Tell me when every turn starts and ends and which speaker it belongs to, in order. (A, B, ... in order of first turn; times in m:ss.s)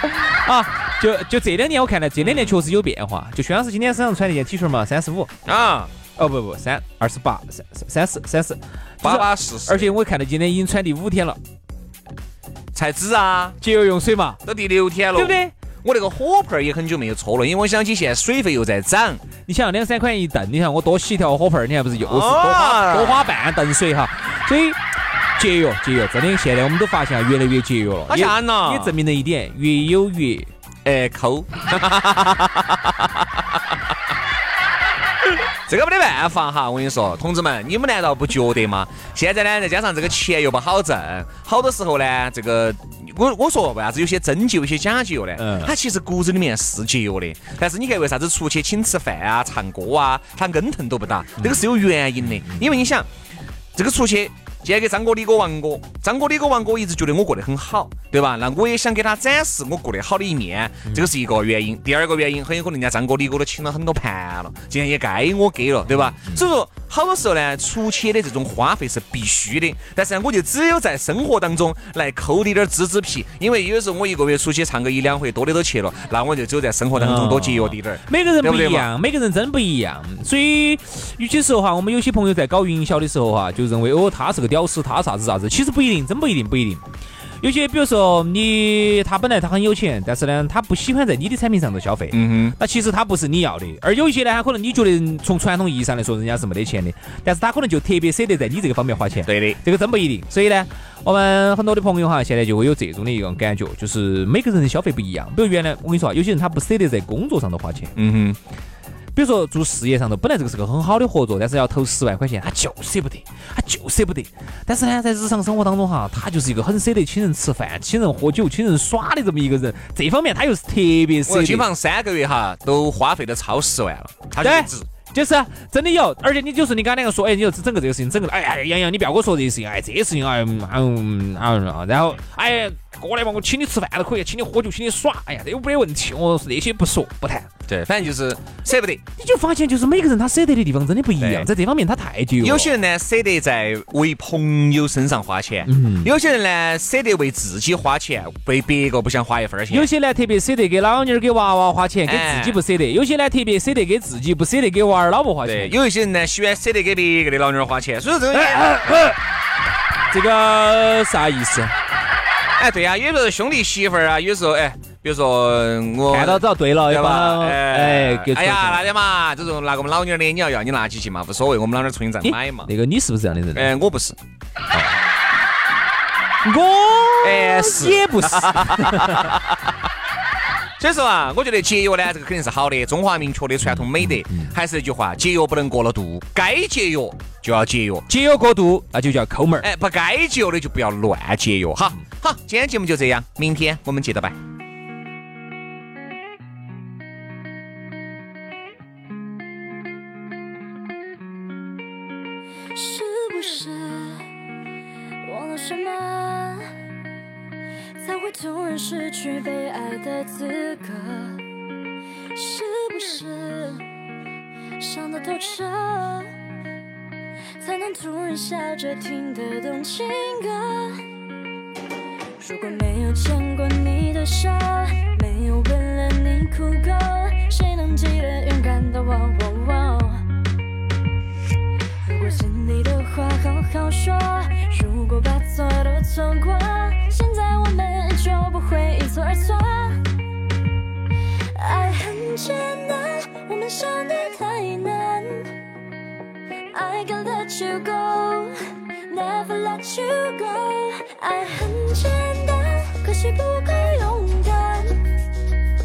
0:00.4-0:05.3 A
0:02.2-0:02.6 B
0:05.4-0:05.9 B
0:06.2-0:11.4 A
0:09.0-0:10.0 B
0:12.7-0:13.6 B
0:13.6-0:14.4 A
0:14.4-0:19.2 B
0:15.1-0:15.5 A
0:19.4-0:24.8 A
0:22.0-0:23.3 B
0:25.4-0:30.5 A
0:28.1-0:29.0 B
0:30.8-0:33.4 B
0:35.7-0:53.1 B
0:45.4-0:45.7 A
0:51.4-0:51.6 A
0:52.4-0:52.7 A
0:53.8-1:18.9 B
1:05.9-1:06.4 A
1:16.9-1:26.8 A
1:27.4-1:47.9 A
1:32.1-1:32.6 B
1:39.3-1:39.6 B
1:48.0-1:48.4 B
1:49.1-2:01.7 A
2:01.3-2:04.9 B
2:04.4-2:17.5 A
2:17.7-2:19.0 B
2:19.2-2:22.7 A
2:21.2-2:21.5 B
2:22.4-2:29.9 B
2:25.6-2:26.1 A
2:29.7-2:35.7 A
2:32.1-2:32.6 B
2:35.4-2:38.7 B
2:38.3-2:39.2 A
2:40.1-2:41.7 A
2:42.6-2:52.7 B
2:46.1-2:48.9 A
2:52.2-2:53.7 A
2:53.5-2:54.2 B
2:54.7-2:55.0 A
2:56.4-2:59.4 A
2:57.2-2:59.6 B
3:00.8-3:08.1 B
3:03.6-3:04.5 A
3:08.1-3:09.7 A
3:09.6-3:14.4 B
3:22.8-3:24.3 C
3:25.2-3:26.7 C
3:28.0-3:31.4 C
3:32.3-3:33.9 C
3:34.8-3:36.4 C
3:37.6-3:41.0 C
3:42.4-3:50.3 C
3:52.0-4:00.0 C
4:01.6-4:05.6 C
4:06.7-4:15.1 C